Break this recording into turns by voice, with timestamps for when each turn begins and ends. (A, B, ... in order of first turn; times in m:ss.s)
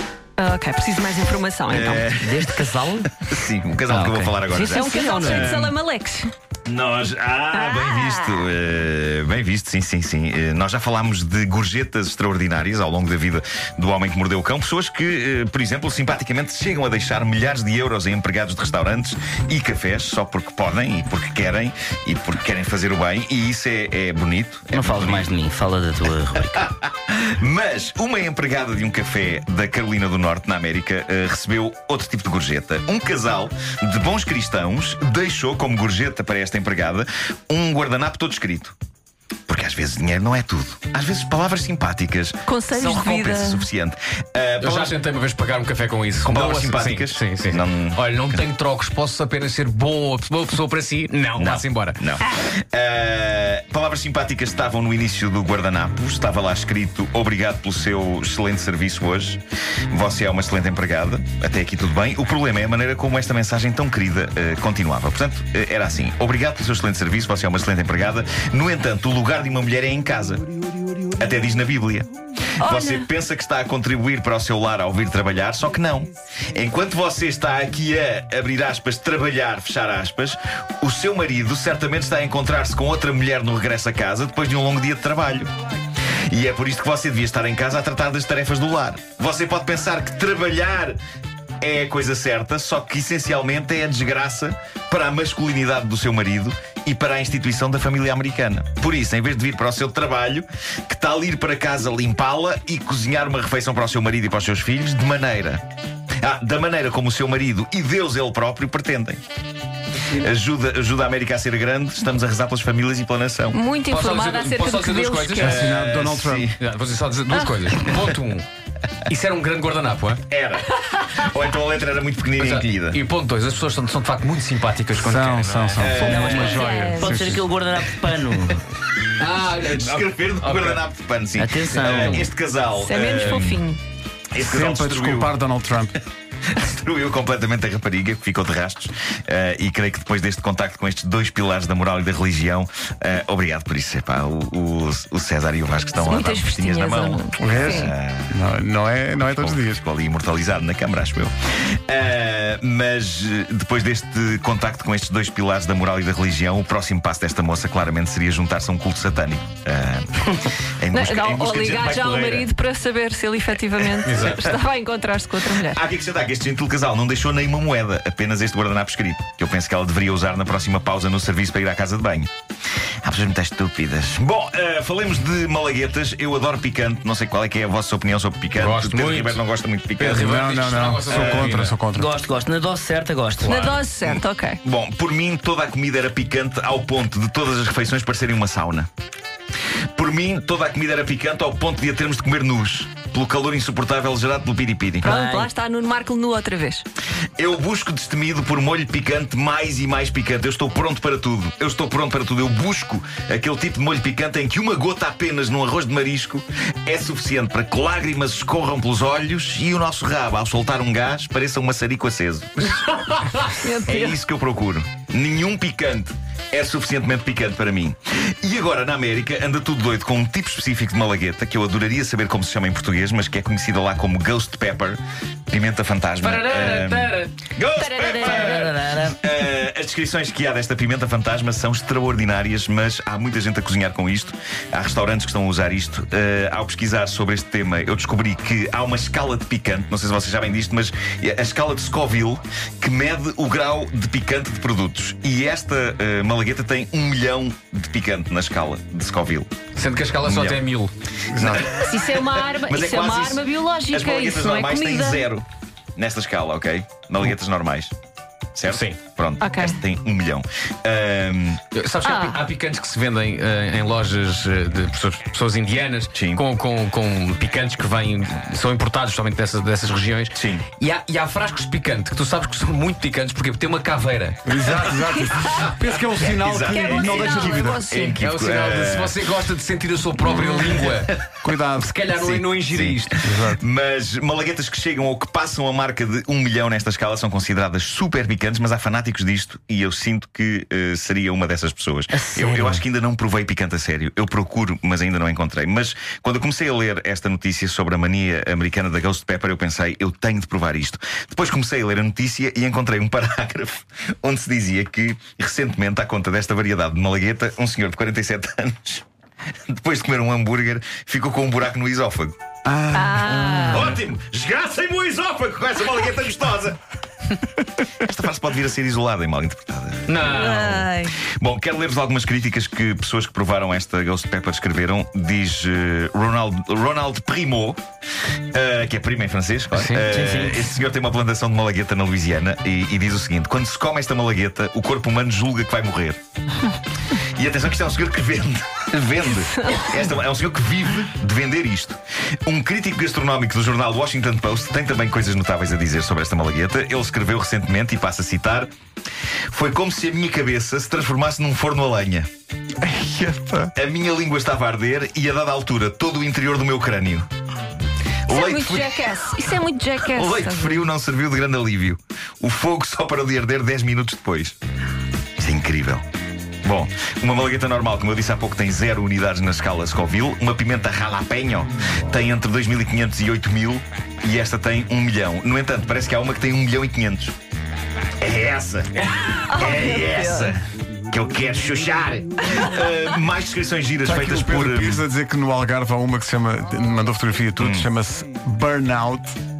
0:00.4-0:02.0 A
0:01.7-0:05.7 B
0:02.1-0:03.2 C
0:03.9-0:05.6 C
0:04.5-0:06.3 A
0:06.6-0:25.3 B
0:07.5-0:08.4 A
0:24.7-0:26.6 C
0:26.5-0:38.7 B
0:39.5-0:45.0 B
0:42.5-0:43.7 A
0:44.6-0:52.0 D
0:46.2-0:48.4 B
0:51.4-1:10.4 B
1:11.1-1:12.1 B
1:12.6-1:13.0 A
1:12.6-1:25.5 B
1:26.3-1:31.0 B
1:31.6-1:45.6 B
1:46.2-1:49.2 B
1:50.0-1:53.6 B
1:53.5-1:55.5 A
1:53.9-1:55.6 D
1:55.3-1:56.5 E
1:55.4-1:56.6 B
1:56.6-1:58.4 D
1:59.0-2:00.2 D
2:00.3-2:03.0 B
2:02.4-2:06.0 D
2:04.9-2:07.4 E
2:05.8-2:06.7 B
2:06.0-2:08.6 C
2:06.6-2:07.1 A
2:09.2-2:10.8 D
2:09.5-2:13.6 B
2:11.4-2:12.3 C
2:11.8-2:12.3 D
2:12.8-2:13.8 A
2:13.2-2:13.5 D
2:14.3-2:15.4 B
2:14.4-2:16.0 E
2:16.5-2:28.4 B
2:26.0-2:27.9 A
2:27.4-2:29.8 E
2:29.4-2:42.5 B
2:40.9-2:45.8 A
2:44.0-2:44.4 D
2:44.0-2:44.4 B
2:45.6-2:52.3 B
2:53.0-3:00.4 B
2:58.5-2:59.4 D
3:00.0-3:01.8 D
3:00.0-3:02.1 E
3:01.0-3:01.6 B
3:01.9-3:03.6 C
3:03.4-3:03.8 D
3:03.5-3:04.6 A
3:04.0-3:08.9 B
3:10.0-3:15.1 B
3:15.0-3:15.5 C
3:15.0-3:16.8 A
3:17.4-3:33.2 B
3:33.6-3:34.2 A
3:33.8-4:09.5 B
3:46.2-3:47.3 D
3:47.7-3:48.6 A
3:48.0-3:49.2 C
4:09.7-4:10.9 D
4:10.2-4:10.6 B
4:11.2-4:11.7 E
4:11.3-4:17.9 B
4:11.8-4:15.3 A
4:18.5-4:21.6 B
4:18.7-4:19.0 D
4:19.4-4:19.8 A
4:21.7-4:34.5 D
4:22.0-4:22.4 A
4:26.1-4:26.4 B
4:30.3-4:30.7 B
4:34.4-4:37.8 E
4:36.2-4:39.3 B
4:36.7-4:38.2 A
4:38.2-4:43.2 D
4:40.2-4:42.0 E
4:42.2-5:09.0 B
4:43.2-4:43.6 E
4:52.1-4:52.8 C
5:09.7-5:12.4 B
5:12.7-5:13.6 E
5:12.9-5:13.9 A
5:13.6-5:16.8 B
5:18.0-5:27.8 B
5:20.0-5:20.8 D
5:20.3-5:21.2 A
5:28.5-5:36.2 B
5:29.7-5:30.0 D
5:30.1-5:30.7 C
5:37.2-5:48.7 B
5:49.5-5:52.3 B
5:52.8-5:53.7 E
5:53.7-5:57.3 B
5:58.3-5:59.1 B
5:58.3-6:00.8 A
6:00.1-6:04.6 B
6:05.4-6:06.0 B
6:06.6-6:17.3 B
6:18.2-6:20.6 B
6:19.4-6:20.5 A
6:21.1-6:25.0 B
6:24.0-6:29.4 E
6:27.6-6:27.9 B